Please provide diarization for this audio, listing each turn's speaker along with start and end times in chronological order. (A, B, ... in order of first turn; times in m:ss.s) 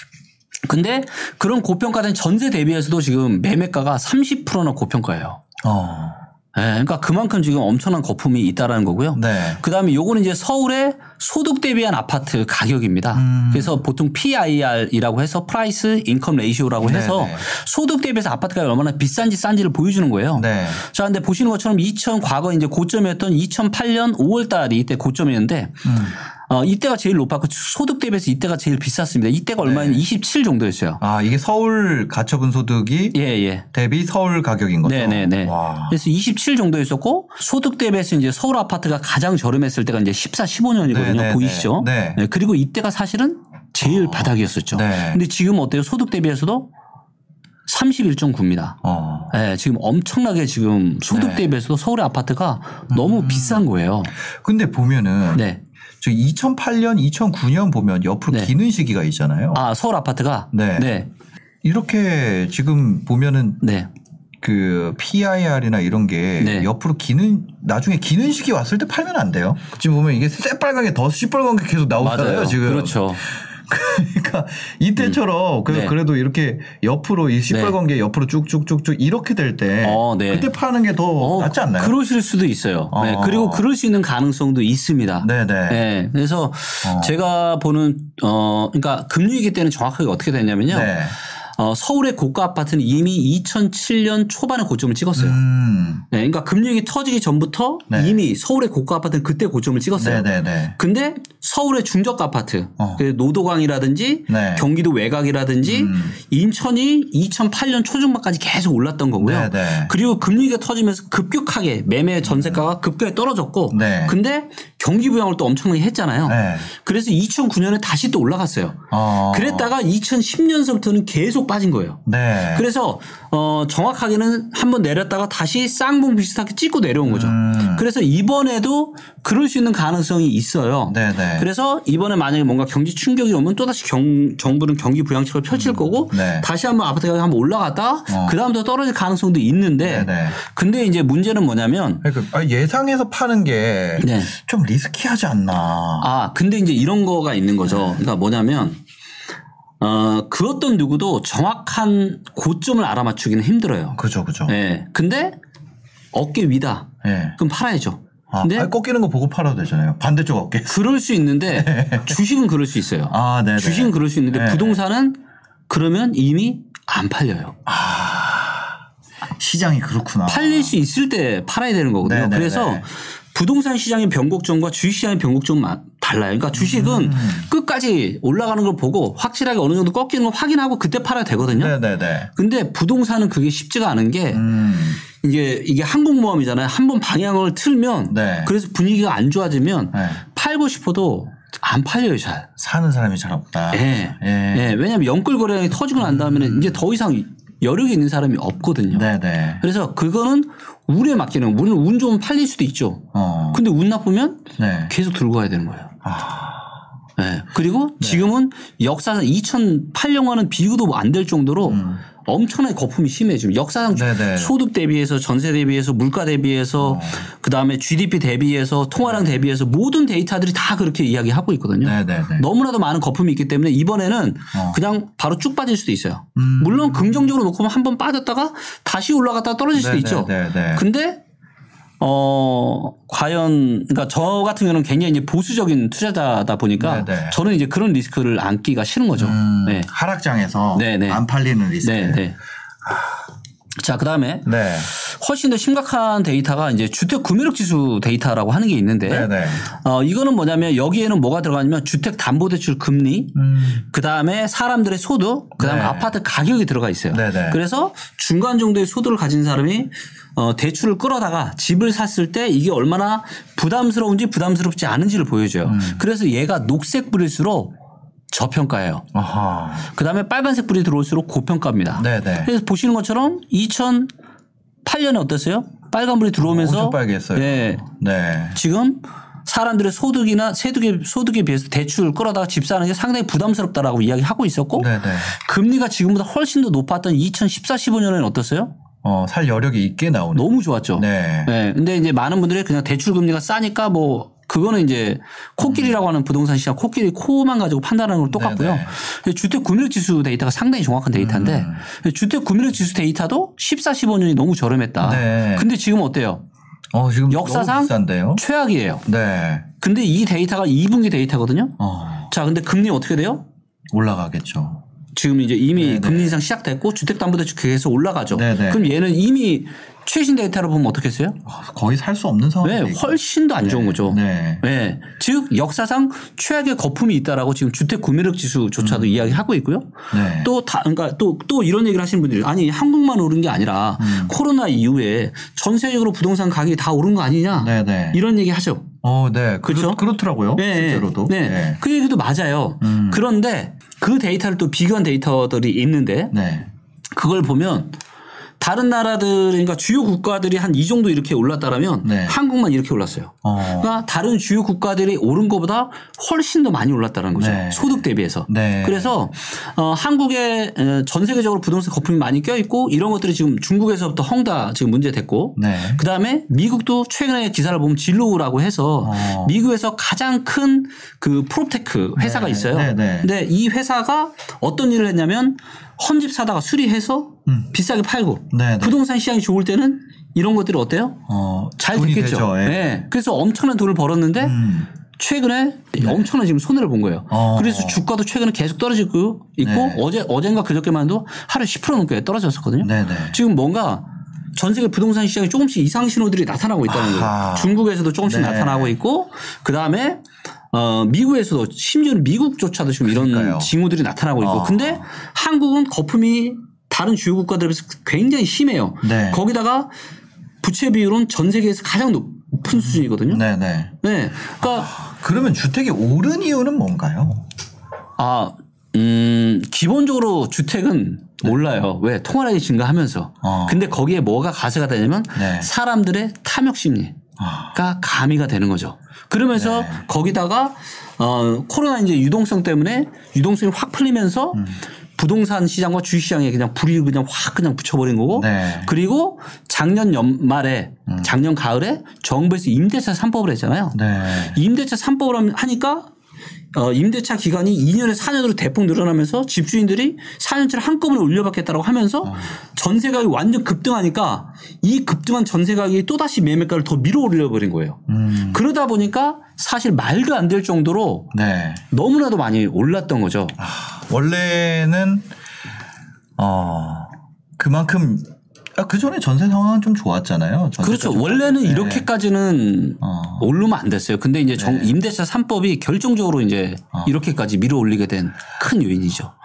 0:00.7-0:05.4 A
0:05.6-0:06.2 B
0:06.5-0:31.0 A
0:09.1-0:09.6 B
0:13.1-0:13.8 B
0:16.8-0:17.4 B
0:20.4-0:20.8 B
0:25.8-0:26.2 B
0:29.6-0:30.0 B
0:31.0-0:33.2 B
0:33.1-0:33.6 A
0:33.7-0:36.0 B
0:34.8-0:46.7 A
0:40.8-0:42.2 B
0:43.8-0:45.2 B
0:47.7-0:48.8 A
0:48.8-0:49.3 B
0:49.3-0:54.1 A
0:51.1-0:51.5 B
0:52.9-0:55.4 B
0:55.3-0:55.6 A
0:56.0-0:59.6 B
0:59.5-1:01.1 A
1:00.5-1:00.9 B
1:01.6-1:03.6 B
1:03.6-1:03.9 A
1:04.4-1:22.0 B
1:06.4-1:06.7 A
1:12.0-1:13.2 A
1:15.0-1:15.9 A
1:17.5-1:17.7 A
1:19.8-1:20.5 A
1:21.2-1:30.9 A
1:22.9-1:23.6 B
1:25.2-1:25.8 B
1:26.8-1:27.1 B
1:30.7-1:31.2 B
1:31.6-1:35.4 A
1:35.2-1:36.0 B
1:36.1-1:40.3 A
1:37.9-1:38.2 B
1:40.0-1:40.8 B
1:40.8-2:02.0 A
1:44.3-1:44.7 B
1:45.6-1:46.2 B
1:49.2-1:49.9 B
1:52.2-1:52.6 B
1:53.7-1:54.2 B
1:56.2-1:56.7 B
1:58.9-1:59.7 B
2:02.0-2:02.7 B
2:02.5-2:22.0 A
2:07.0-2:07.8 B
2:10.9-2:11.4 B
2:15.5-2:16.5 B
2:18.1-2:18.4 B
2:19.8-2:20.4 B
2:22.0-2:26.1 B
2:24.0-2:24.3 A
2:26.0-2:28.8 A
2:27.6-2:28.0 B
2:29.8-2:35.4 A
2:34.0-2:34.5 B
2:36.1-2:38.7 A
2:37.0-2:37.4 B
2:38.3-2:40.8 B
2:40.7-2:47.6 A
2:41.5-2:42.2 B
2:43.1-2:44.8 B
2:47.6-2:48.7 B
2:49.4-2:50.8 B
2:50.2-3:01.7 A
2:52.0-2:52.8 B
2:56.5-2:57.5 B
3:01.4-3:02.3 B
3:02.4-3:04.4 A
3:04.3-3:05.0 B
3:05.0-3:12.5 A
3:08.1-3:08.5 B
3:09.9-3:10.2 B
3:12.6-3:14.8 B
3:13.7-3:25.9 A
3:16.0-3:16.8 B
3:18.9-3:19.6 B
3:23.1-3:23.6 B
3:24.6-3:24.9 B
3:26.0-3:26.8 B
3:27.2-3:51.2 A
3:28.0-3:28.2 B
3:31.7-3:32.0 B
3:33.9-3:34.5 B
3:36.8-3:37.2 B
3:39.0-3:39.3 B
3:41.8-3:42.4 B
3:44.5-3:44.8 B
3:46.4-3:47.3 B
3:49.7-3:50.8 B
3:52.0-3:59.9 A
3:56.8-3:57.4 B
3:59.2-4:02.2 B
4:00.7-4:01.2 A
4:01.8-4:02.4 A
4:02.8-4:03.1 B
4:03.8-4:27.7 A
4:04.4-4:04.9 B
4:09.0-4:09.7 B
4:13.3-4:13.8 B
4:15.6-4:16.1 B
4:17.1-4:17.6 B
4:25.6-4:26.0 B
4:28.3-4:29.0 A
4:29.1-4:29.9 B
4:29.9-4:34.1 A
4:32.0-4:32.5 B
4:34.8-4:37.8 A
4:36.4-4:38.6 B
4:38.5-4:48.7 A
4:44.8-4:45.4 B
4:49.0-4:51.5 B
4:50.3-5:06.4 A
4:55.6-4:56.0 B
4:58.3-4:58.9 B
5:01.1-5:01.8 B
5:05.0-5:05.7 B
5:06.9-5:08.4 B
5:07.3-5:09.0 A
5:09.0-5:09.7 B
5:09.8-5:11.7 A
5:11.8-5:12.3 B
5:12.3-5:13.4 A
5:13.9-5:14.8 B
5:15.1-5:21.4 A
5:15.8-5:16.4 B
5:18.3-5:18.9 B
5:21.4-5:24.6 B
5:22.6-5:38.9 A
5:28.8-5:29.4 B
5:30.1-5:30.5 B
5:34.0-5:34.3 B
5:37.6-5:38.2 B
5:39.0-5:41.8 B
5:39.6-5:40.0 A
5:40.6-5:46.3 A
5:42.8-5:43.2 B
5:46.3-5:46.7 B
5:47.1-5:48.0 A
5:48.6-6:21.2 A
5:52.0-5:52.4 B
5:53.4-5:54.0 B
5:57.4-5:59.2 B
6:05.6-6:06.0 B
6:09.0-6:09.6 B
6:12.2-6:13.3 B
6:18.5-6:19.0 B
6:21.3-6:23.0 B
6:21.8-6:49.9 A
6:24.4-6:24.9 B
6:27.3-6:28.0 B
6:29.6-6:30.0 B
6:32.8-6:33.4 B
6:36.9-6:39.0 B
6:43.0-6:43.7 B
6:44.4-6:45.0 B
6:49.0-6:49.4 B
6:50.6-6:53.4 A
6:52.7-6:53.9 B
6:54.0-6:54.9 A
6:54.6-6:57.5 B
6:58.2-7:07.2 A
7:03.4-7:03.9 B
7:05.4-7:05.7 B
7:07.4-7:07.7 B
7:07.7-7:26.1 A
7:09.5-7:10.0 B
7:18.3-7:18.9 B
7:21.1-7:21.3 B
7:23.9-7:24.6 B
7:26.7-7:41.3 A
7:32.2-7:32.5 B
7:38.1-7:38.6 B
7:41.3-7:41.8 B
7:41.9-7:43.6 A
7:43.6-7:45.3 B
7:46.4-7:52.1 B
7:50.8-7:59.3 A
7:53.0-7:53.5 B
7:54.6-7:54.9 B